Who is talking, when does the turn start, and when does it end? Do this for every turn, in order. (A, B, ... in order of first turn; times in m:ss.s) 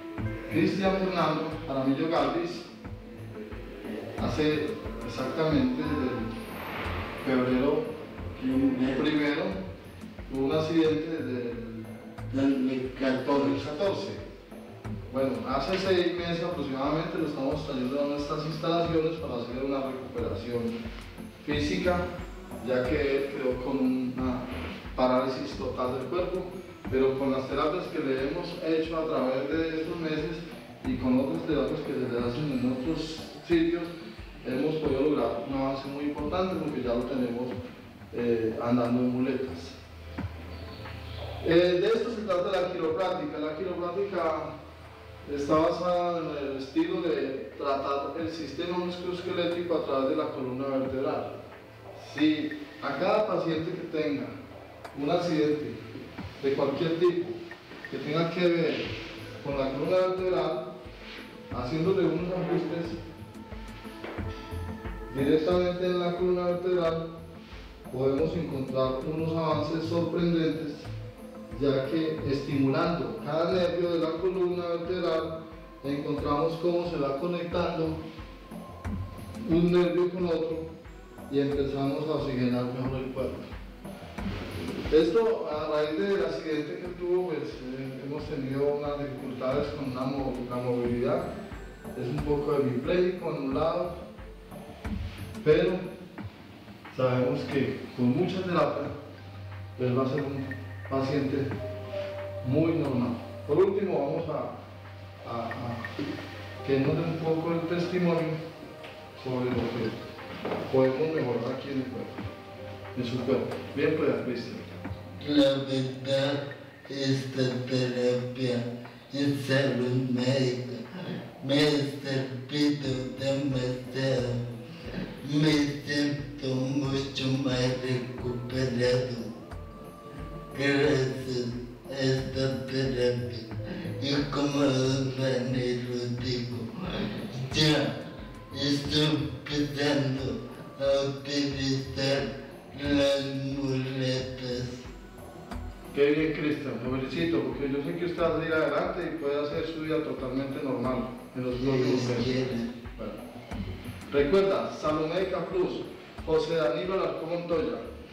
0:00.5-0:02.7 A
0:04.2-0:06.3 A
0:07.2-0:07.9 A
0:08.4-0:09.1 B
0:08.8-0:09.6 A
0:10.3-0:11.9 A
0:12.3-0:13.7 B
0:13.0-0:14.2 A
0:15.1-0:20.7 A
0:21.4-0:22.1 A
0:22.6-0:33.9 A
0:34.4-0:37.6 A
0:38.1-0:39.8 A
0:41.4-0:44.5 A
0:45.2-0:51.3 A
0:51.9-0:54.3 A
0:54.9-0:55.8 A
0:56.4-0:57.4 A
0:57.9-1:00.7 A
1:01.5-1:03.0 A
1:05.1-1:07.0 A
1:07.9-1:10.9 A
1:11.5-1:18.0 A
1:19.4-1:20.7 A
1:21.3-1:23.5 A
1:24.9-1:31.3 A
1:31.9-1:33.9 A
1:35.4-1:35.8 A
1:36.9-1:38.9 A
1:39.8-1:41.5 A
1:42.4-1:44.5 A
1:45.2-1:45.9 A
1:46.6-1:48.4 A
1:49.2-1:50.0 A
1:50.7-1:52.2 A
1:52.9-1:54.6 A
1:55.2-2:00.8 B
2:01.4-2:04.5 B
2:05.2-2:09.3 B
2:10.5-2:17.9 B
2:18.5-2:24.8 B
2:25.9-2:33.2 A
2:31.6-2:32.7 B
2:34.1-2:37.8 A